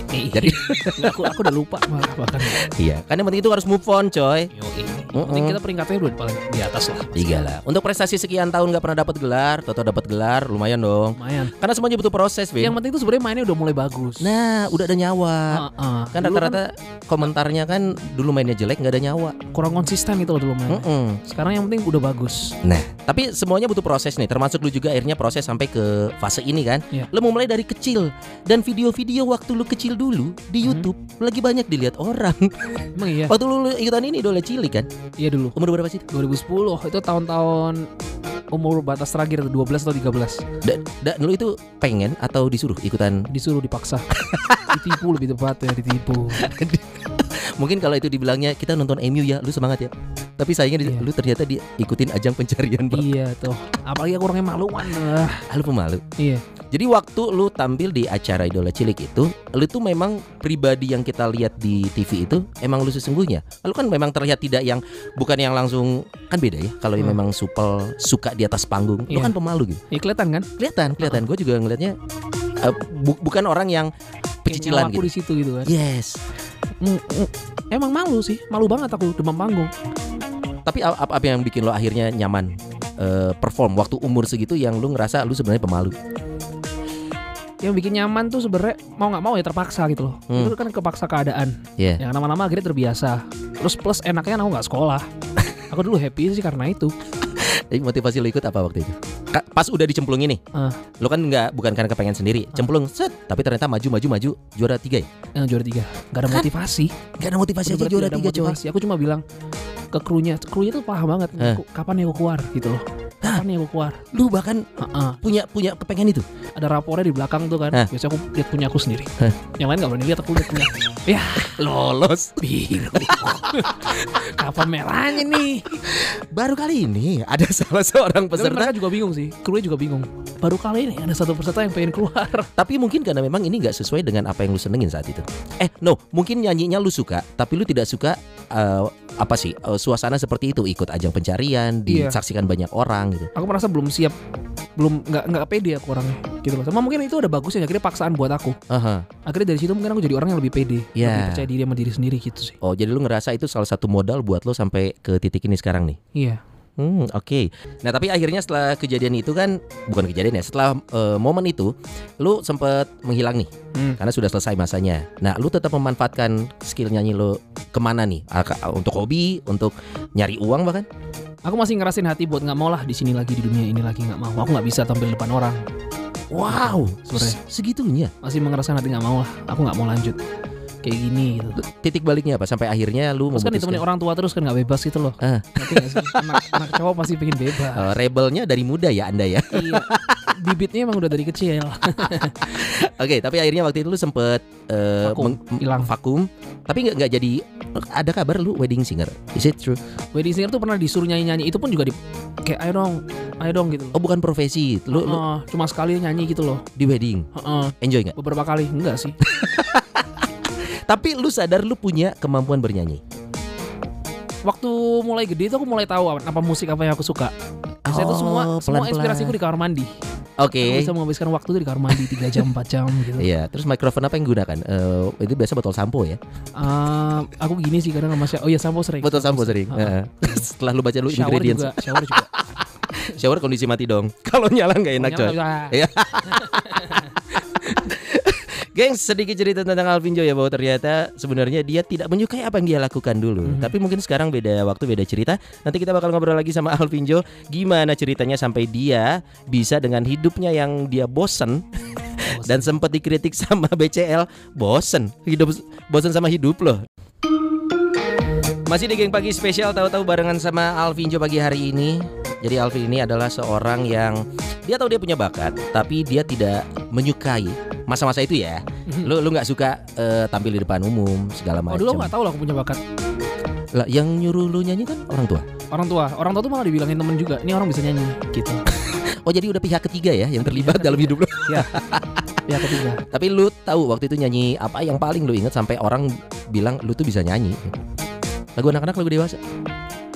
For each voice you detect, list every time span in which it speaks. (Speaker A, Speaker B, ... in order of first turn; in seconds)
Speaker A: 0.1-2.7, 4.5-7.5, 11.2-11.5, 12.6-14.3, 15.5-16.6, 19.5-22.6, 30.6-30.9, 33.0-33.3, 35.2-35.5, 36.1-37.9, 38.5-40.5, 43.3-44.1, 44.6-46.5, 50.8-51.1, 52.9-55.5, 56.2-56.4, 69.1-69.3, 69.9-71.2, 74.5-75.7, 76.8-79.7, 87.6-95.0, 95.7-96.9, 100.5-100.8, 105.4-107.0, 107.6-109.2, 109.9-114.1, 114.8-115.2, 116.5-121.6, 122.4-125.8, 128.3-132.5, 141.9-142.2, 143.3-144.1, 144.8-148.6, 149.2-152.6, 156.1-156.4, 163.7-164.0, 171.4-175.6, 176.4-177.4, 178.2-180.2, 180.8-181.6, 183.3-187.9, 189.5-192.6, 195.0-195.9, 200.1-204.0, 204.9-206.7, 207.3-209.2, 214.5-217.3, 217.9-219.9, 220.6-223.3, 226.6-230.4, 231.1-232.4, 235.0-237.8, 243.4-243.7, 252.3-252.7, 268.9-269.1, 271.7-272.8, 275.7-278.7, 280.4-281.8, 282.4-283.0
Speaker B: 0.3-1.3, 2.5-4.5, 5.1-5.6, 7.2-12.8, 14.2-19.4, 20.7-21.2, 22.6-32.5, 33.3-34.9, 35.5-36.0, 40.6-43.3, 44.2-44.8, 46.4-53.1, 55.5-56.0, 56.7-69.8, 70.6-72.0, 72.6-73.9, 74.5-75.1, 75.7-76.2, 80.7-86.0, 90.3-90.6, 97.4-100.4, 101.0-105.1, 107.2-108.6, 114.1-114.6, 115.2-116.3, 121.4-124.0, 125.8-128.8, 132.6-143.3, 148.7-149.1, 150.9-151.5, 152.6-156.0, 156.8-170.9, 176.3-178.1, 181.6-183.8, 185.2-186.6, 187.7-190.3, 192.4-199.8, 203.9-205.2, 206.8-207.3, 207.8-208.2, 209.2-210.1, 210.9-213.0, 217.8-219.4, 220.4-220.9, 223.2-226.2, 229.0-232.4, 233.0-251.7, 252.4-256.8, 258.7-272.1, 273.7-275.4, 278.9-282.2, 283.1-287.7, 288.6-289.4